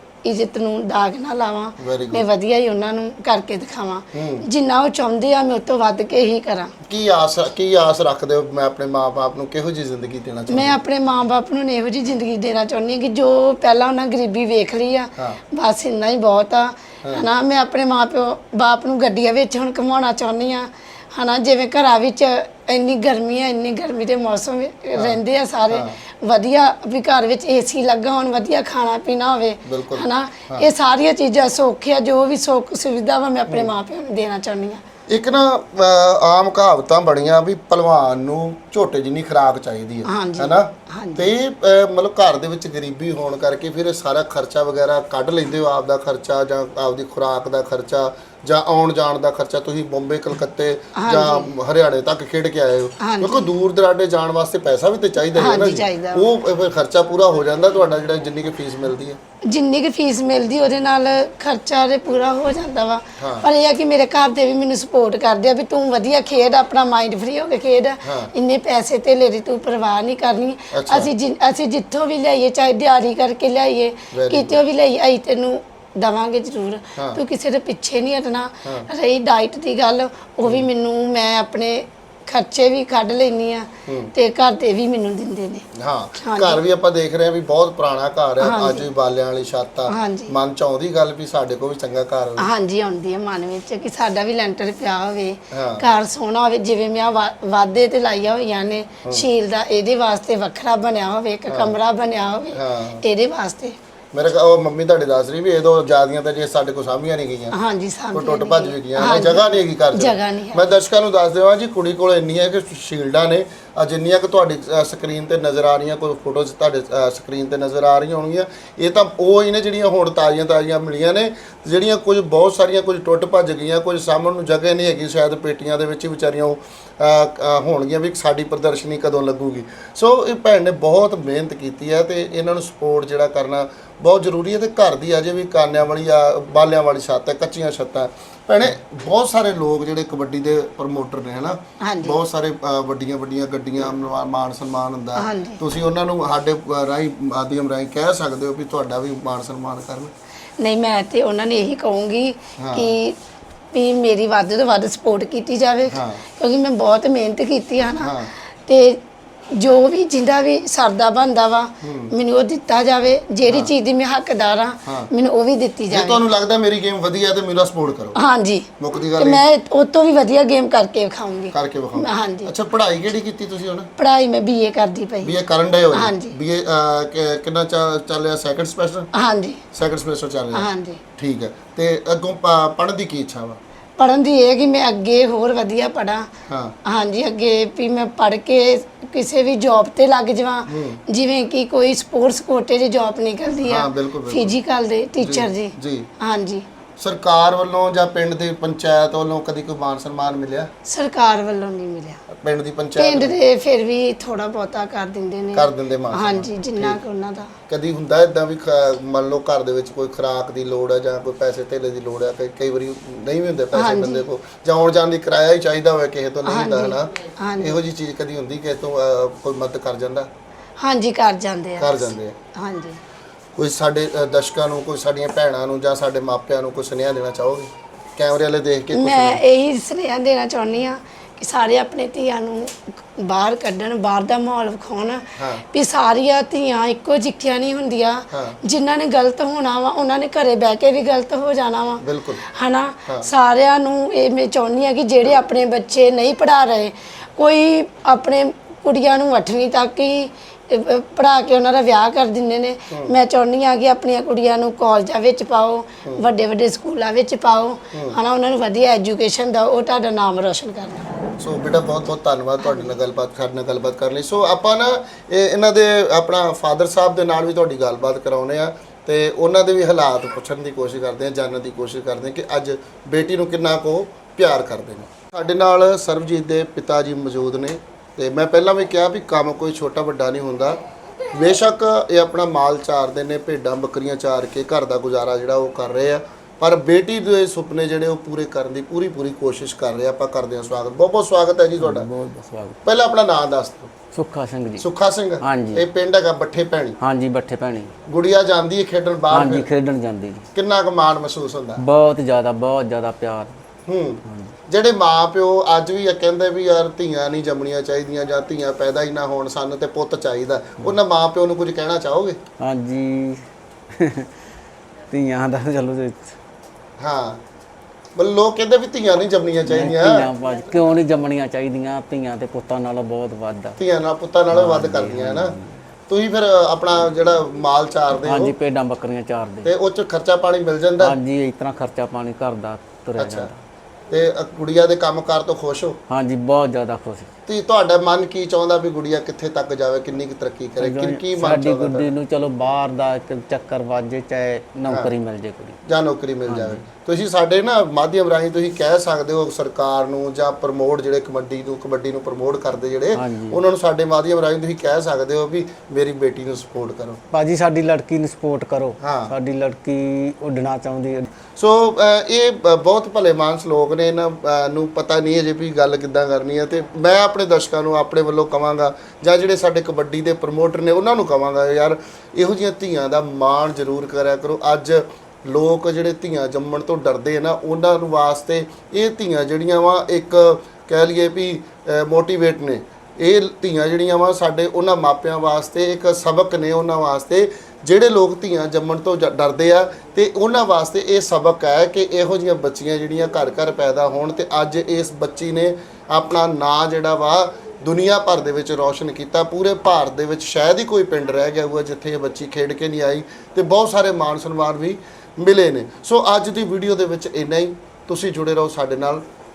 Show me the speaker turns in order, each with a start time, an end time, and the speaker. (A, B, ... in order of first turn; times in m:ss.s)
0:00.2-0:06.7 A
0:01.8-0:02.3 B
0:04.1-0:04.4 B
0:06.8-0:10.8 B
0:10.5-0:34.8 A
0:25.7-0:26.0 B
0:29.6-0:30.7 B
0:35.1-0:59.2 B
0:40.0-0:41.3 A
0:50.9-0:51.5 A
0:53.0-0:53.5 A
0:55.3-0:56.3 A
0:59.4-1:25.7 A
1:03.2-1:03.5 B
1:08.0-1:08.3 B
1:10.7-1:11.1 B
1:14.1-1:14.6 B
1:23.9-1:24.1 B
1:25.8-1:32.5 B
1:26.2-1:26.6 A
1:28.4-1:28.9 A
1:29.9-1:30.4 A
1:32.4-1:43.8 A
1:35.5-1:35.9 B
1:41.5-1:41.8 B
1:42.5-1:43.0 B
1:44.1-1:47.6 B
1:47.5-1:50.7 A
1:48.1-2:30.1 B
2:21.8-2:22.2 A
2:25.2-2:25.6 A
2:30.6-2:33.2 A
2:32.6-2:32.9 B
2:33.7-2:46.2 A
2:35.9-2:36.2 B
2:38.0-2:38.3 B
2:41.8-2:42.1 B
2:43.4-2:43.7 B
2:45.9-2:48.2 B
2:48.1-2:52.5 A
2:48.8-2:49.5 B
2:51.5-2:53.9 B
2:54.0-2:55.4 A
2:55.2-2:59.1 B
2:55.9-2:56.4 A
2:59.1-2:59.6 A
2:59.7-3:03.6 B
3:00.5-3:01.0 A
3:04.0-3:06.3 A
3:06.5-3:06.8 B
3:06.8-3:16.6 A
3:10.7-3:11.0 B
3:13.6-3:14.6 B
3:15.2-3:16.1 B
3:17.0-3:20.7 B
3:20.8-3:22.2 A
3:22.3-3:23.4 B
3:23.0-3:27.5 A
3:25.5-3:27.0 B
3:27.7-3:40.3 B
3:33.7-3:34.3 A
3:36.4-3:37.8 A
3:40.8-3:43.0 A
3:41.8-3:42.4 B
3:43.6-3:49.4 B
3:48.9-4:21.1 A
3:55.4-3:55.6 B
3:58.3-3:58.6 B
4:02.0-4:02.4 B
4:12.9-4:13.2 B
4:21.4-4:40.8 B
4:41.3-4:52.1 B
4:51.8-4:52.8 C
4:52.8-4:53.9 B
4:54.1-4:54.9 C
4:54.8-4:57.0 B
4:55.4-4:55.8 C
4:57.0-4:57.9 C
4:58.1-4:59.7 B
4:59.3-5:00.4 C
5:00.5-5:01.8 B
5:01.8-5:03.5 C
5:03.9-5:12.4 B
5:04.2-5:04.5 C
5:12.6-5:13.4 C
5:14.0-5:14.3 C
5:15.1-5:16.3 C
5:17.0-5:17.4 B
5:18.2-5:20.3 B
5:19.6-5:23.8 C
5:23.8-5:25.5 B
5:24.5-5:25.8 C
5:26.1-5:28.5 B
5:28.2-5:29.7 C
5:29.6-5:31.2 B
5:31.0-5:33.6 C
5:33.2-5:33.5 B
5:34.1-5:36.0 B
5:36.1-5:37.3 C
5:37.5-5:42.1 B
5:40.8-5:45.8 C
5:44.8-5:45.1 B
5:45.8-5:57.2 B
5:46.5-5:46.8 C
5:53.1-5:53.6 C
5:57.3-6:01.3 C
5:59.0-5:59.3 B
6:01.6-6:49.2 B